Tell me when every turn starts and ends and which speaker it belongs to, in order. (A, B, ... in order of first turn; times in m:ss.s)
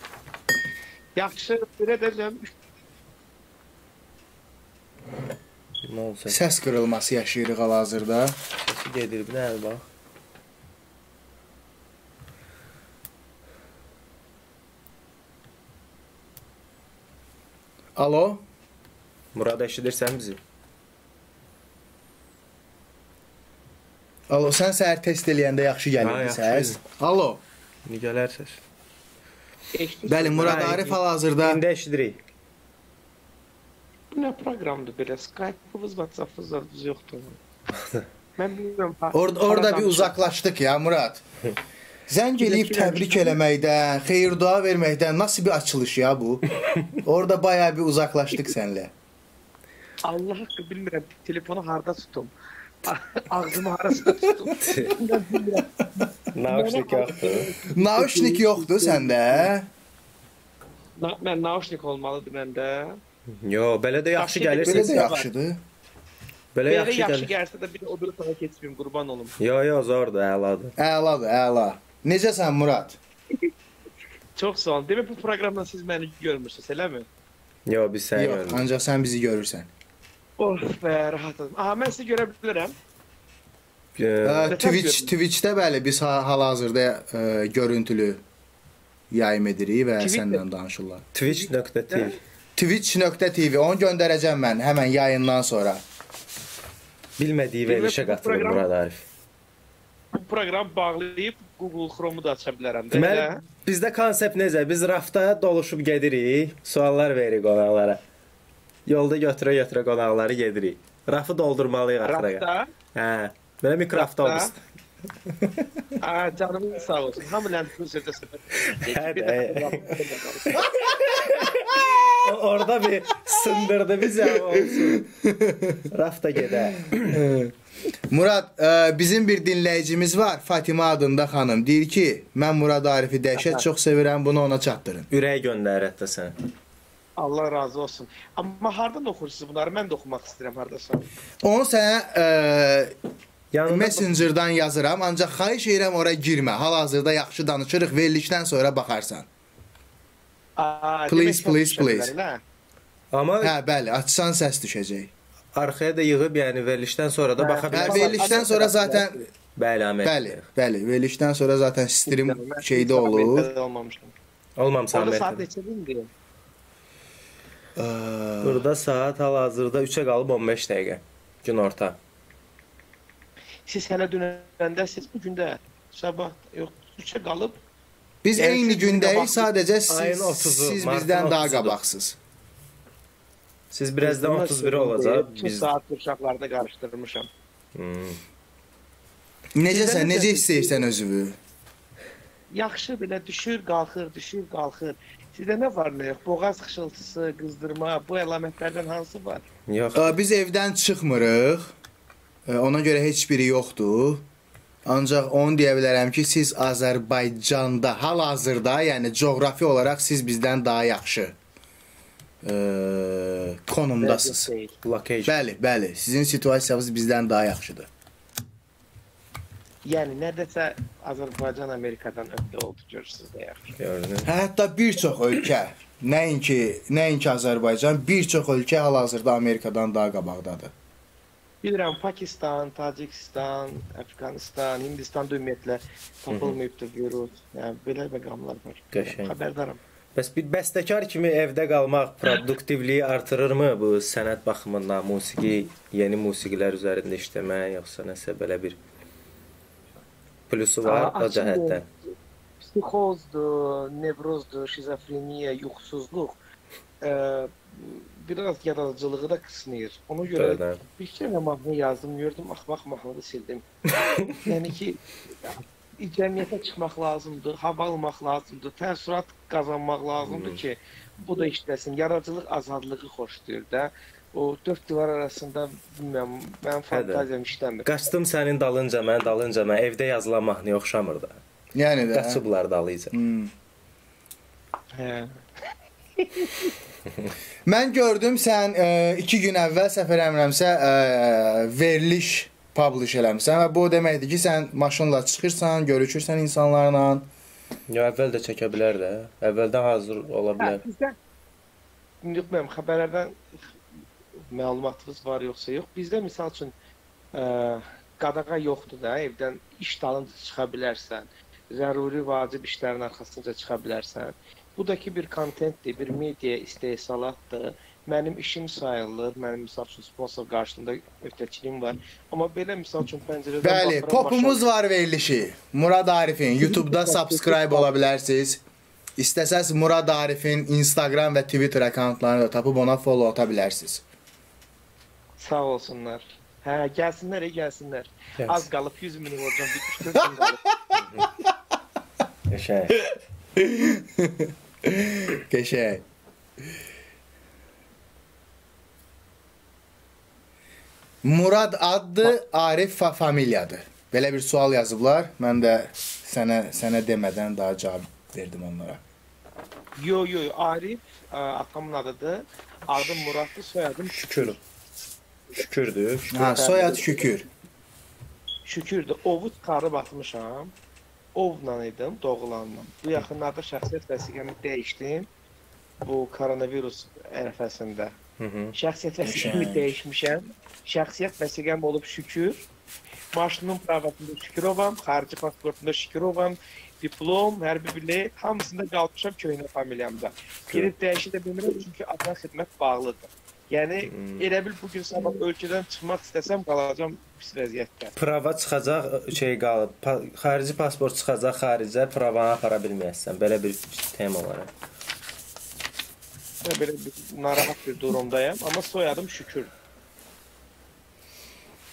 0:01.2-0:02.5 A
0:05.8-0:06.4 B
0:06.3-0:08.4 C
0:08.6-0:09.9 B
0:18.0-0:18.4 C
0:19.4-0:20.4 B
0:24.3-0:27.4 C
0:26.0-0:26.8 B
0:27.9-0:28.6 B
0:29.7-0:30.9 A
0:30.1-0:31.6 C
0:30.4-0:32.2 B
0:34.1-0:37.4 A
0:38.4-0:40.2 A
0:39.1-0:41.2 C
0:42.1-0:46.4 C
0:42.4-0:43.4 A
0:46.6-0:47.0 B
0:47.0-0:48.9 C
0:50.0-0:52.3 A
0:52.8-0:59.5 A
0:54.6-0:55.0 B
0:56.3-0:57.5 B
0:57.8-0:59.7 C
1:01.0-1:03.0 A
1:03.3-1:05.1 B
1:04.2-1:05.3 A
1:04.6-1:05.6 C
1:06.6-1:07.3 B
1:06.7-1:09.4 A
1:09.4-1:10.7 B
1:10.8-1:13.0 C
1:14.4-1:17.1 A
1:17.7-1:18.7 B
1:18.2-1:19.7 C
1:20.4-1:22.8 A
1:24.0-1:24.6 B
1:24.2-1:28.2 C
1:24.5-1:25.1 A
1:29.1-1:31.0 C
1:30.0-1:30.4 A
1:31.1-1:32.2 B
1:31.3-1:32.1 A
1:32.6-1:35.8 C
1:37.2-1:39.0 B
1:37.7-1:38.6 A
1:40.1-1:43.4 A
1:42.9-1:48.0 B
1:48.9-1:54.6 B
1:52.0-1:52.7 A
1:54.0-1:54.5 A
1:56.0-2:00.9 A
1:58.5-2:00.0 B
2:00.5-2:05.0 B
2:04.2-2:05.8 C
2:05.9-2:07.2 B
2:07.0-2:07.5 C
2:08.1-2:15.1 C
2:13.4-2:13.6 A
2:15.1-2:16.3 B
2:17.2-2:21.1 A
2:21.4-2:22.9 C
2:23.5-2:24.1 B
2:23.7-2:29.3 C
2:30.6-2:32.4 A
2:31.1-2:32.1 C
2:33.1-2:33.6 B
2:33.4-2:35.1 C
2:35.6-2:38.3 B
2:37.4-2:39.2 A
2:37.7-2:39.2 C
2:39.6-2:40.5 B
2:40.0-2:43.5 C
2:42.1-2:44.1 A
2:44.6-2:45.4 B
2:44.9-2:46.1 A
2:47.8-2:48.6 C
2:48.4-2:52.0 B
2:53.7-2:57.6 A
2:58.2-3:02.2 C
2:58.4-2:59.5 A
2:59.9-3:01.8 B
3:03.7-3:05.7 B
3:04.0-3:07.3 A
3:07.8-3:08.2 B
3:09.6-3:11.4 C
3:09.7-3:10.9 A
3:12.5-3:19.4 A
3:19.7-3:20.2 B
3:20.0-3:21.7 C
3:22.5-3:24.2 C
3:24.8-3:31.4 C
3:32.4-3:34.5 C
3:34.0-3:34.7 A
3:34.8-3:35.4 B
3:35.3-3:37.9 C
3:39.8-3:43.8 A
3:43.8-3:44.3 B
3:44.2-3:50.7 C
3:51.6-3:59.8 A
3:56.3-3:56.6 B
3:58.9-3:59.4 B
4:00.2-4:08.8 B
4:10.5-4:11.9 B
4:10.8-4:11.8 A
4:12.6-4:16.4 A
4:17.0-4:23.6 A
4:20.3-4:20.8 B
4:24.0-4:24.5 B
4:24.3-4:37.9 A
4:30.2-4:30.6 B
4:36.9-4:37.3 B
4:37.8-4:41.4 B
4:41.7-4:42.4 C
4:42.1-4:43.2 B
4:43.1-4:43.5 C
4:45.0-4:45.3 A
4:46.2-4:46.7 A
4:47.7-4:57.3 C
4:57.9-5:00.8 B
5:00.6-5:01.2 A
5:02.2-5:03.4 A
5:04.5-5:06.7 A
5:07.3-5:24.6 A
5:23.6-5:28.6 C
5:26.6-5:27.9 A
5:29.2-5:34.0 C
5:35.4-5:40.6 A
5:38.4-5:38.7 B
5:40.2-5:40.5 C
5:40.9-5:41.3 B
5:42.5-5:43.0 B
5:43.1-5:46.0 C
5:51.2-5:59.0 C
6:00.0-6:04.6 A
6:04.1-6:04.6 B
6:05.6-6:07.2 B
6:06.3-6:07.4 C
6:08.7-6:10.7 A
6:11.4-6:15.3 A
6:16.0-6:18.2 A
6:18.4-6:18.8 B
6:18.8-6:22.6 A
6:19.2-6:19.8 C
6:23.3-6:38.2 A
6:34.1-6:34.4 B
6:38.2-6:44.7 B
6:46.6-6:49.7 A